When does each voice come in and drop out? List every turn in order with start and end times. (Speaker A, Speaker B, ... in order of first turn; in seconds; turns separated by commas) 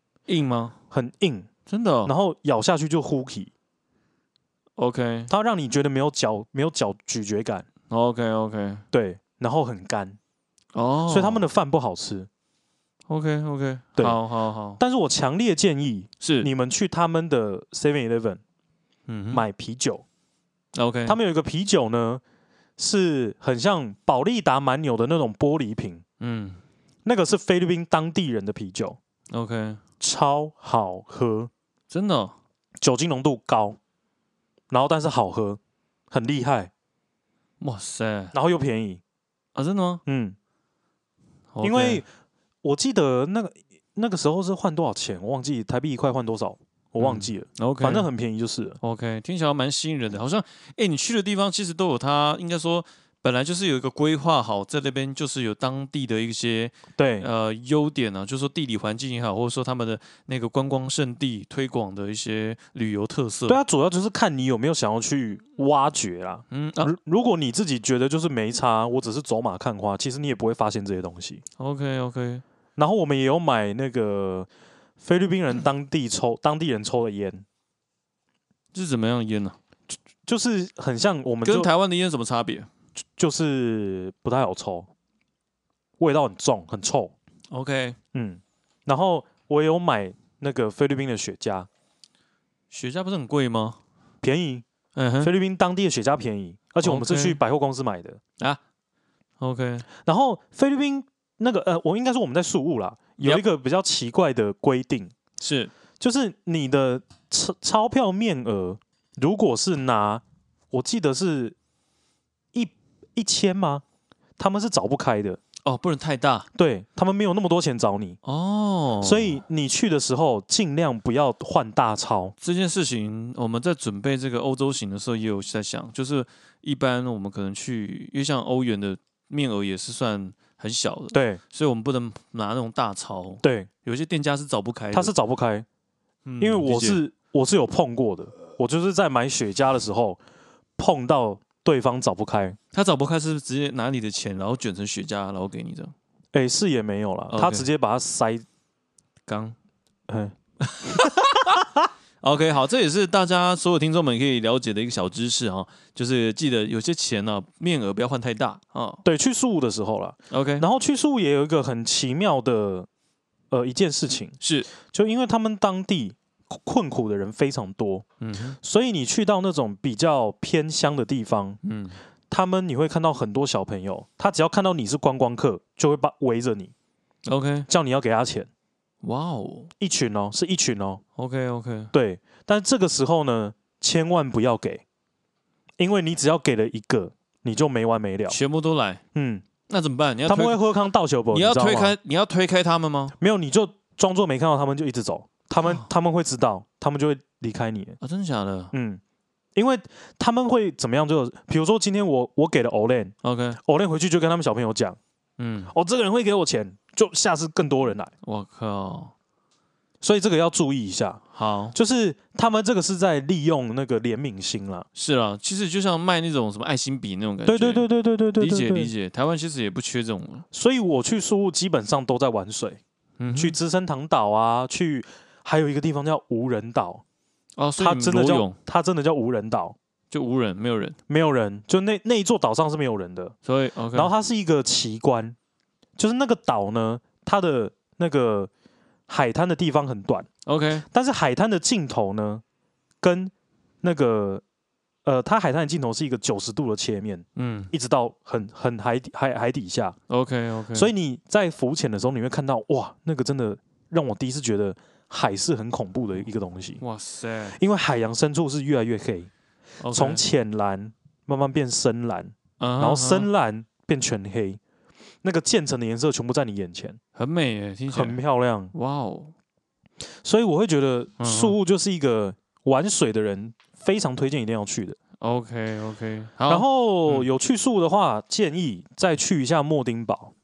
Speaker A: 0.3-0.8, Speaker B: 0.9-1.5, Speaker A: 1.7-2.1, Speaker B: 2.0-3.5, Speaker A: 4.8-5.3, Speaker B: 5.3-7.7, Speaker A: 7.9-8.8, Speaker B: 8.9-10.2, Speaker A: 10.7-11.4, Speaker B: 11.1-12.3, Speaker A: 13.1-14.8, Speaker B: 14.8-18.4, Speaker A: 16.2-16.5, Speaker A: 19.1-19.4, Speaker B: 19.3-20.0, Speaker A: 20.8-21.2, Speaker B: 21.1-22.2, Speaker B: 22.8-26.0, Speaker A: 26.2-26.6, Speaker B: 27.1-29.0, Speaker A: 29.3-29.8, Speaker B: 30.0-31.5, Speaker A: 31.9-32.4, Speaker B: 32.8-33.8, Speaker B: 34.7-35.6, Speaker B: 36.1-36.7, Speaker A: 37.6-38.4, Speaker B: 38.3-39.0, Speaker A: 39.5-40.0, Speaker B: 40.1-40.4, Speaker A: 41.5-42.0, Speaker B: 41.6-42.1, Speaker B: 42.6-48.8, Speaker A: 47.0-48.1, Speaker A: 48.8-63.6, Speaker B: 57.0-57.3, Speaker B: 63.5-71.4, Speaker A: 66.5-66.9, Speaker A: 71.6-72.4, Speaker B: 72.8-74.5, Speaker B: 75.0-77.5, Speaker A: 78.7-79.6, Speaker B: 80.3-81.7, Speaker A: 81.5-82.7, Speaker B: 83.2-84.9, Speaker B: 86.0-87.1, Speaker A: 87.5-88.0, Speaker B: 88.1-91.7, Speaker A: 92.7-93.8, Speaker B: 94.2-94.7, Speaker A: 95.0-95.3, Speaker B: 95.2-98.2, Speaker A: 96.8-97.4, Speaker A: 99.4-99.9, Speaker B: 100.0-105.1, Speaker A: 105.4-105.7, Speaker B: 106.0-111.6, Speaker B: 112.5-113.8, Speaker B: 114.4-115.4, Speaker A: 115.7-116.5, Speaker B: 116.5-118.2, Speaker A: 118.2-119.4, Speaker B: 119.0-122.3, Speaker A: 122.4-135.1, Speaker B: 131.1-131.4, Speaker B: 133.4-133.7, Speaker B: 134.9-135.7, Speaker A: 136.2-137.0, Speaker B: 136.4-140.2, Speaker B: 140.8-142.6, Speaker A: 142.7-145.9, Speaker B: 146.3-148.4, Speaker A: 147.3-147.7, Speaker A: 149.3-149.6, Speaker B: 150.1-150.3, Speaker A: 150.6-151.6, Speaker A: 152.2-159.0, Speaker B: 159.1-162.9, Speaker A: 160.3-160.7, Speaker B: 163.5-168.1, Speaker A: 164.4-164.7, Speaker A: 168.2-168.6, Speaker B: 168.6-171.6, Speaker A: 171.6-172.0, Speaker B: 172.3-176.7, Speaker A: 177.3-177.7, Speaker B: 177.7-178.5, Speaker A: 179.0-179.7, Speaker B: 179.8-181.0, Speaker A: 181.2-181.9, Speaker B: 181.9-184.8, Speaker B: 185.8-188.4, Speaker A: 188.3-189.0, Speaker B: 189.2-189.4, Speaker A: 189.7-190.6, Speaker B: 190.3-191.9, Speaker A: 191.3-193.2, Speaker B: 193.2-198.0, Speaker A: 198.0-198.7, Speaker B: 198.7-199.0, Speaker B: 199.6-205.0, Speaker A: 203.2-203.6, Speaker A: 205.4-205.7, Speaker B: 205.7-208.1, Speaker A: 208.2-209.1, Speaker B: 210.0-211.2, Speaker A: 211.3-211.8, Speaker B: 211.7-214.9, Speaker A: 214.9-217.9, Speaker B: 217.5-218.9, Speaker A: 218.4-220.5, Speaker B: 220.5-222.8, Speaker A: 223.2-223.6, Speaker B: 223.3-227.0, Speaker A: 227.6-228.6, Speaker B: 227.8-229.8, Speaker A: 230.1-231.0, Speaker B: 231.1-233.3, Speaker A: 233.4-234.1, Speaker B: 233.9-235.4, Speaker B: 236.0-238.5, Speaker B: 239.1-240.3, Speaker A: 240.4-240.8, Speaker B: 240.9-242.4, Speaker B: 243.0-244.4, Speaker B: 245.1-250.0, Speaker A: 247.4-247.7, Speaker A: 250.1-250.9, Speaker B: 250.7-256.8, Speaker A: 256.8-257.6, Speaker B: 257.5-259.3, Speaker A: 259.8-260.2, Speaker B: 259.9-264.6, Speaker A: 262.6-263.3, Speaker B: 265.2-267.0, Speaker A: 267.2-268.2, Speaker B: 267.9-268.7, Speaker A: 268.7-269.3, Speaker B: 270.2-275.0, Speaker A: 271.2-271.6, Speaker A: 275.2-277.3, Speaker B: 276.5-280.3